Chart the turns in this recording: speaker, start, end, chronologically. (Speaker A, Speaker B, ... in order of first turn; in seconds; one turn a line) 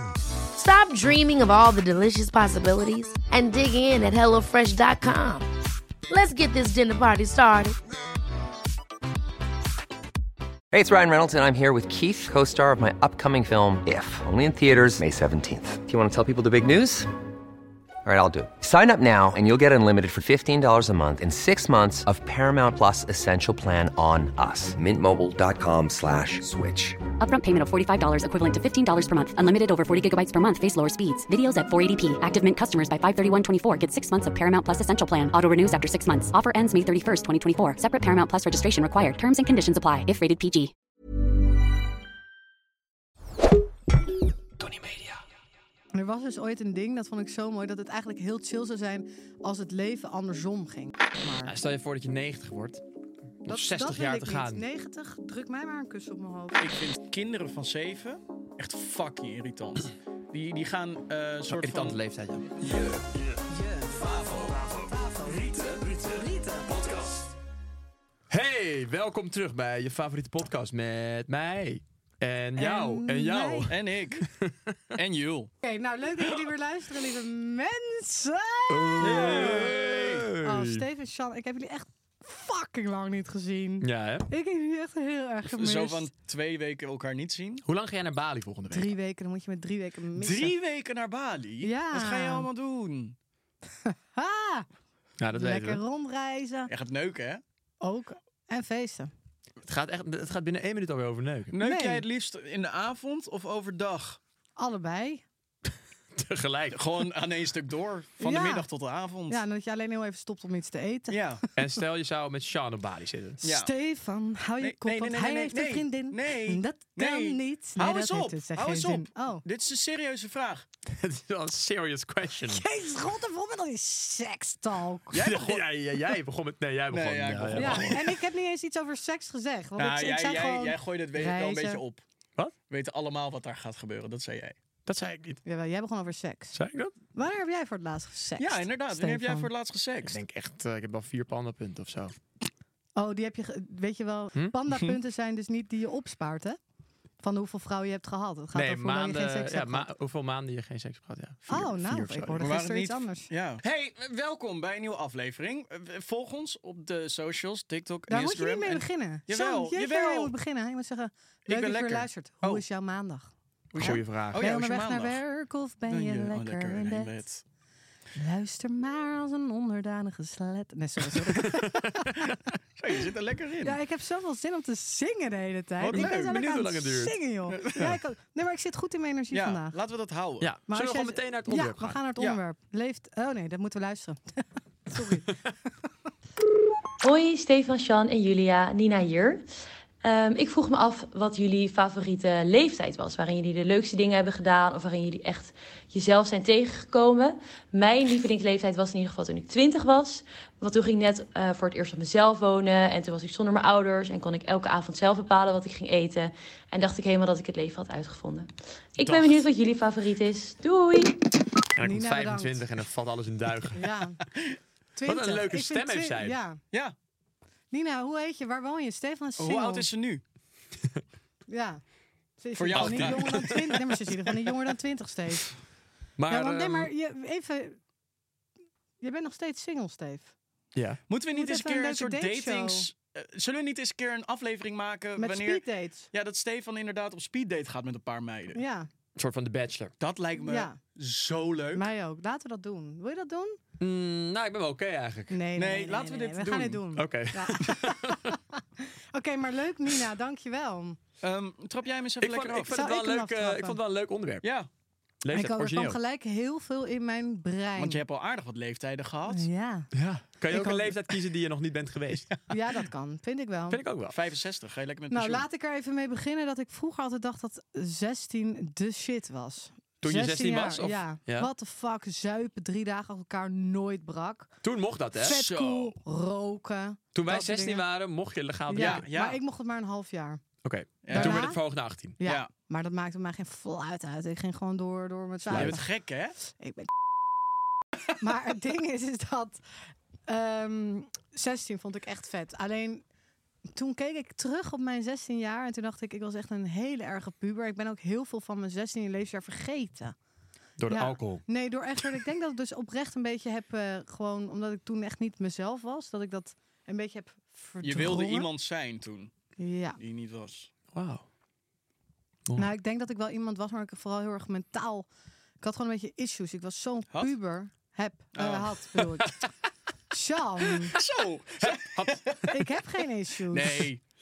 Speaker A: 0.5-5.5
Speaker A: 6.1-7.8
Speaker B: 10.7-17.1
Speaker B: 18.1-27.0
Speaker C: 27.2-40.7
Speaker D: 45.9-51.5
Speaker E: 51.4-52.8
Speaker E: 53.5-54.7
Speaker D: 53.5-56.6
Speaker F: 56.6-62.0
Speaker E: 61.5-62.6
Speaker F: 62.7-63.0
Speaker F: 63.8-64.6
Speaker E: 64.6-64.9
Speaker D: 64.9-66.7
Speaker E: 68.3-75.0
Speaker D: 72.6-73.7
Speaker F: 73.7-74.3
Speaker F: 75.0-75.5
Speaker D: 75.6-79.8
Speaker E: 78.7-80.9
Speaker F: 79.0-80.3
Speaker D: 80.4-86.1
Speaker E: 83.8-84.3
Speaker F: 85.6-87.6
Speaker E: 87.6-89.0
Speaker D: 88.7-90.5
Speaker F: 90.2-93.2
Speaker D: 91.6-92.5
Speaker D: 93.9-94.7
Speaker E: 95.2-95.8
Speaker D: 95.3-96.7
Speaker F: 96.7-97.4
Speaker D: 97.8-99.1
Speaker E: 99.6-101.5
Speaker F: 101.5-104.2
Speaker D: 101.6-102.0
Speaker D: 104.6-105.2
Speaker E: 106.1-107.0
Speaker F: 106.7-109.4
Speaker D: 108.2-108.7
Speaker D: 109.3-111.2
Speaker F: 111.1-111.4
Speaker E: 111.6-113.4
Speaker D: 113.4-119.4
Speaker F: 113.4-113.7
Speaker F: 114.6-120.7
Speaker E: 120.9-122.6
Speaker D: 122.5-125.2
Speaker F: 125.1-125.7
Speaker E: 125.1-128.0
Speaker F: 126.9-128.2
Speaker D: 127.6-131.8
Speaker F: 129.8-132.0
Speaker F: 132.7-134.6
Speaker E: 134.9-135.4
Speaker D: 135.4-136.6
Speaker E: 136.5-136.9
Speaker D: 137.1-139.5
Speaker F: 138.4-140.2
Speaker E: 140.1-142.2
Speaker D: 143.0-146.6
Speaker D: 147.2-149.9
Speaker E: 148.5-152.5
Speaker D: 151.5-153.3
Speaker F: 152.4-160.3
Speaker D: 158.1-163.3
Speaker F: 161.5-162.7
Speaker F: 163.7-165.2
Speaker E: 163.7-164.5
Speaker D: 163.8-167.2
Speaker F: 165.9-167.4
Speaker D: 168.2-172.3
Speaker E: 171.4-172.1
Speaker F: 172.8-173.8
Speaker D: 173.6-179.8
Speaker F: 175.8-176.4
Speaker E: 175.9-177.2
Speaker F: 177.5-177.9
Speaker F: 179.3-180.5
Speaker E: 180.4-182.0
Speaker D: 180.7-185.3
Speaker G: 187.0-189.4
Speaker G: 190.0-211.2
Speaker E: 209.0-209.4
Speaker E: 211.8-213.8
Speaker D: 211.8-212.6
Speaker D: 213.7-214.2
Speaker D: 215.0-216.6
Speaker E: 215.1-216.4
Speaker D: 217.7-219.9
Speaker F: 219.4-220.2
Speaker D: 221.5-221.8
Speaker D: 222.4-225.5
Speaker F: 222.6-223.6
Speaker E: 222.7-223.7
Speaker E: 226.2-226.9
Speaker D: 226.3-227.8
Speaker D: 229.0-230.3
Speaker E: 230.8-231.0
Speaker F: 231.1-238.6
Speaker D: 231.3-232.9
Speaker D: 235.2-236.1
Speaker D: 238.6-238.9
Speaker E: 239.2-239.9
Speaker F: 240.0-241.9
Speaker D: 240.4-240.8
Speaker D: 241.7-243.6
Speaker E: 243.8-245.4
Speaker D: 245.3-251.0
Speaker F: 245.6-246.8
Speaker E: 246.9-248.4
Speaker F: 251.2-252.7
Speaker E: 252.2-254.5
Speaker D: 252.7-253.8
Speaker F: 254.4-254.7
Speaker E: 255.2-256.0
Speaker D: 255.3-258.0
Speaker F: 257.8-259.5
Speaker D: 259.3-259.9
Speaker E: 259.9-262.3
Speaker D: 260.5-261.0
Speaker D: 262.5-263.8
Speaker E: 263.7-264.2
Speaker F: 264.1-265.5
Speaker D: 265.1-274.6
Speaker E: 270.0-271.5
Speaker E: 274.6-275.4
Speaker D: 275.2-277.9
Speaker F: 275.3-275.9
Speaker E: 277.1-279.1
Speaker D: 278.7-280.4
Speaker F: 278.8-279.4
Speaker E: 280.6-282.2
Speaker F: 281.0-281.5
Speaker D: 281.1-281.6
Speaker D: 282.2-285.8
Speaker F: 282.2-282.5
Speaker F: 285.5-286.4
Speaker E: 285.5-285.8
Speaker D: 286.4-286.9
Speaker D: 288.2-293.0
Speaker D: 293.7-300.2
Speaker E: 300.8-301.4
Speaker D: 300.9-308.5
Speaker F: 307.8-309.3
Speaker D: 309.6-310.0
Speaker F: 310.0-310.7
Speaker E: 310.9-311.2
Speaker D: 312.6-315.1
Speaker D: 315.6-319.4
Speaker F: 318.4-318.8
Speaker D: 320.1-320.9
Speaker F: 320.9-322.6
Speaker E: 321.6-322.4
Speaker D: 322.5-323.8
Speaker F: 323.5-324.0